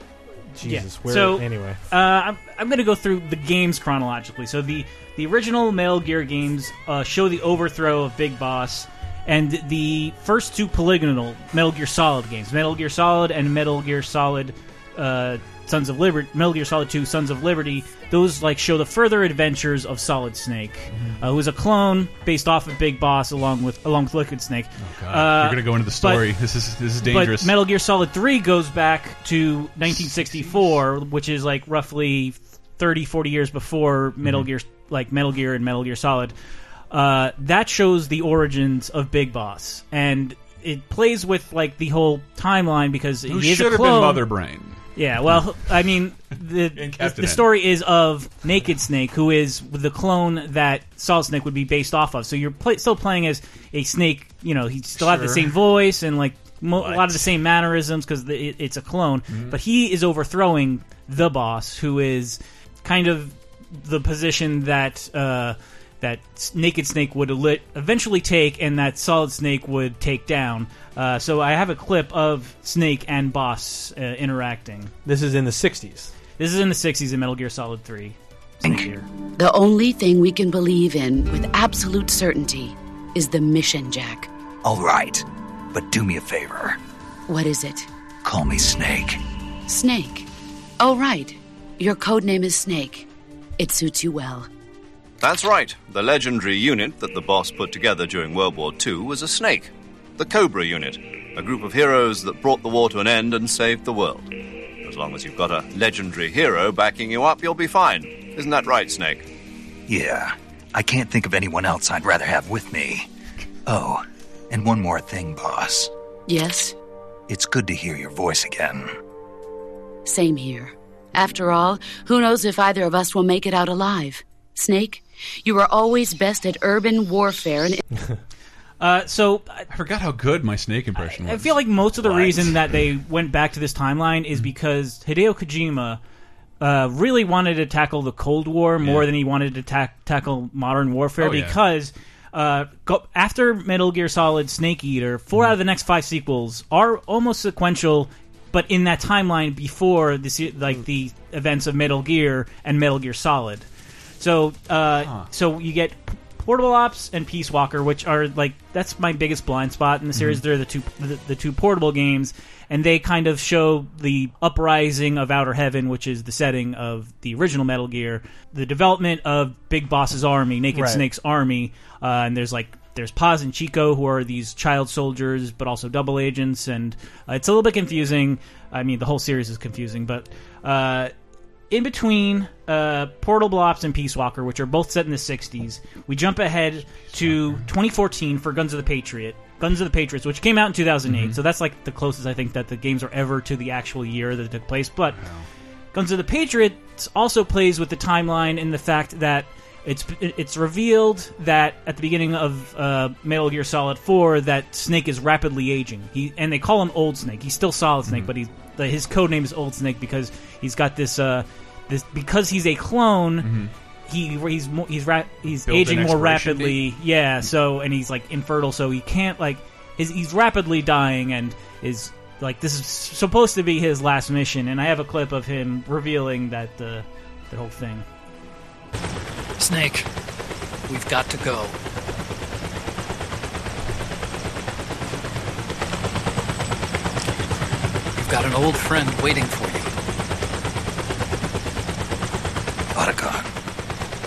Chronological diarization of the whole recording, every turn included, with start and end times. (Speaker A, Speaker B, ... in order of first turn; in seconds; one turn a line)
Speaker A: 0.5-1.8
Speaker B: 0.6-26.3
Speaker C: 20.9-21.2
Speaker C: 24.8-27.5
Speaker B: 27.0-36.3
Speaker C: 29.9-30.8
Speaker C: 34.2-34.5
Speaker B: 36.9-44.2
Speaker C: 43.3-45.4
Speaker B: 45.0-74.9
Speaker C: 46.7-47.4
Speaker C: 55.0-55.5
Speaker C: 56.8-57.3
Speaker C: 59.3-59.5
Speaker A: 75.0-76.1
Speaker B: 76.4-79.0
Speaker D: 78.6-78.9
Speaker E: 79.4-84.3
Speaker D: 84.6-86.8
Speaker E: 87.3-87.9
Speaker D: 88.2-89.2
Speaker E: 89.7-90.3
Speaker E: 90.8-93.1
Speaker E: 93.6-94.5
Speaker F: 95.2-104.3
Speaker F: 104.8-109.2
Speaker D: 109.9-113.1
Speaker D: 113.7-115.9
Speaker E: 116.3-116.8
Speaker D: 117.3-119.0
Speaker E: 120.0-127.8
Speaker B: 128.8-129.7
Speaker C: 129.7-132.5
Speaker B: 130.9-136.0
Speaker B: 136.6-153.7
Speaker C: 138.8-139.1
Speaker C: 141.2-141.6
Speaker B: 154.2-181.1
Speaker C: 155.0-155.3
Speaker C: 160.2-160.4
Speaker A: 170.7-171.0
Speaker B: 181.7-195.2
Speaker C: 187.1-187.6
Speaker C: 191.1-191.4
Speaker C: 195.1-195.5
Speaker B: 195.9-213.5
Speaker C: 208.1-208.3
Speaker C: 213.4-213.7
Speaker B: 214.1-228.1
Speaker C: 215.5-216.8
Speaker G: 229.6-230.1
Speaker G: 230.9-231.8
Speaker G: 238.1-239.9
Speaker D: 242.9-243.4